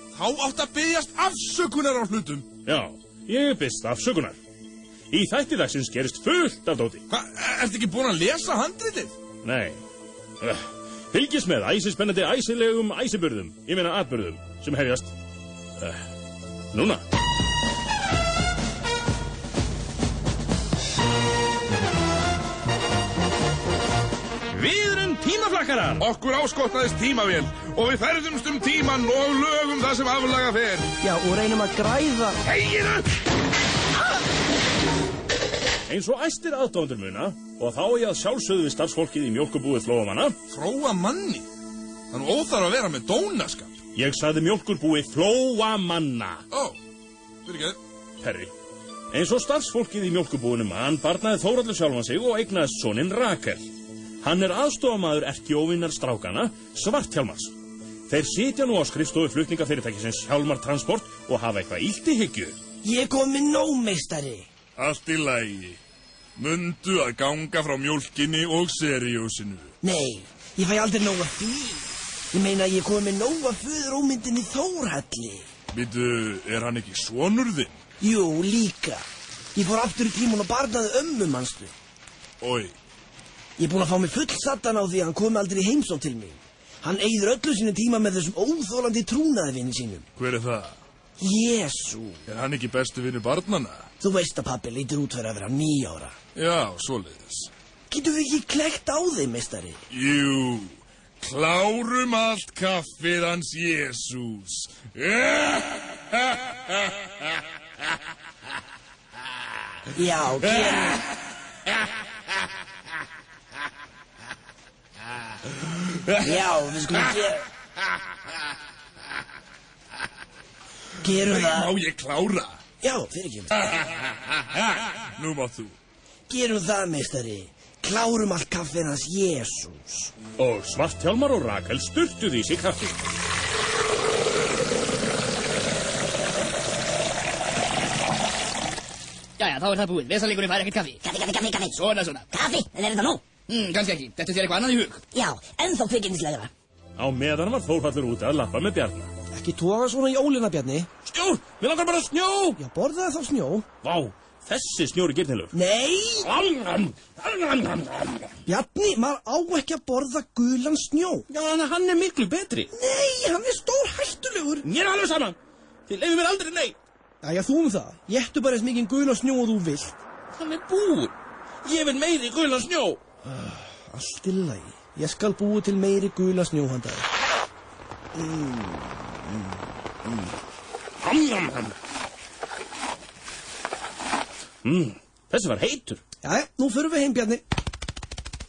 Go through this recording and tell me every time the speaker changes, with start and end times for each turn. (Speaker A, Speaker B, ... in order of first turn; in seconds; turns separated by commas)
Speaker A: 0.1-2.5, Speaker B: 2.6-4.3, Speaker B: 5.1-7.0, Speaker A: 7.1-9.2, Speaker B: 9.4-9.8, Speaker B: 10.4-15.1, Speaker B: 15.8-16.0, Speaker B: 16.7-17.0, Speaker B: 24.5-26.0, Speaker A: 26.0-30.9, Speaker C: 31.0-32.4, Speaker A: 32.5-33.0, Speaker B: 35.9-40.4, Speaker A: 40.5-41.5, Speaker A: 42.1-43.8, Speaker B: 43.9-46.4, Speaker A: 46.5-46.8, Speaker A: 47.5-47.8, Speaker B: 48.2-48.5, Speaker B: 49.1-53.6, Speaker B: 54.2-57.5, Speaker B: 58.1-62.6, Speaker C: 62.8-64.5, Speaker A: 64.8-65.8, Speaker A: 66.4-69.7, Speaker C: 69.8-75.5, Speaker A: 75.7-77.8, Speaker C: 78.0-81.7, Speaker A: 82.4-82.7, Speaker C: 83.6-90.0, Speaker A: 90.2-90.8, Speaker C: 91.2-92.2, Speaker A: 92.3-93.9, Speaker C: 94.0-96.2, Speaker A: 96.3-97.5, Speaker C: 97.9-99.8, Speaker A: 99.9-107.1, Speaker C: 109.9-111.0, Speaker A: 115.9-116.4, Speaker C: 116.2-117.4, Speaker C: 121.0-121.8, Speaker A: 121.0-122.6, Speaker C: 122.8-123.5, Speaker A: 123.8-125.8, Speaker C: 126.3-130.1, Speaker B: 130.4-133.0, Speaker D: 139.4-141.0, Speaker E: 141.0-143.3, Speaker D: 141.7-142.3, Speaker D: 143.4-145.0, Speaker E: 145.1-146.5, Speaker B: 147.0-149.1, Speaker C: 149.3-150.9, Speaker B: 151.0-152.6, Speaker C: 152.6-153.6, Speaker B: 153.8-155.5, Speaker C: 155.5-156.3, Speaker B: 156.2-158.3, Speaker C: 158.4-161.3, Speaker B: 161.3-162.7, Speaker C: 162.7-164.7, Speaker B: 164.6-166.8, Speaker C: 167.2-170.0, Speaker B: 170.3-173.0, Speaker C: 173.2-177.1, Speaker C: 178.1-178.9, Speaker B: 181.0-181.7, Speaker B: 184.6-186.0, Speaker C: 186.2-187.4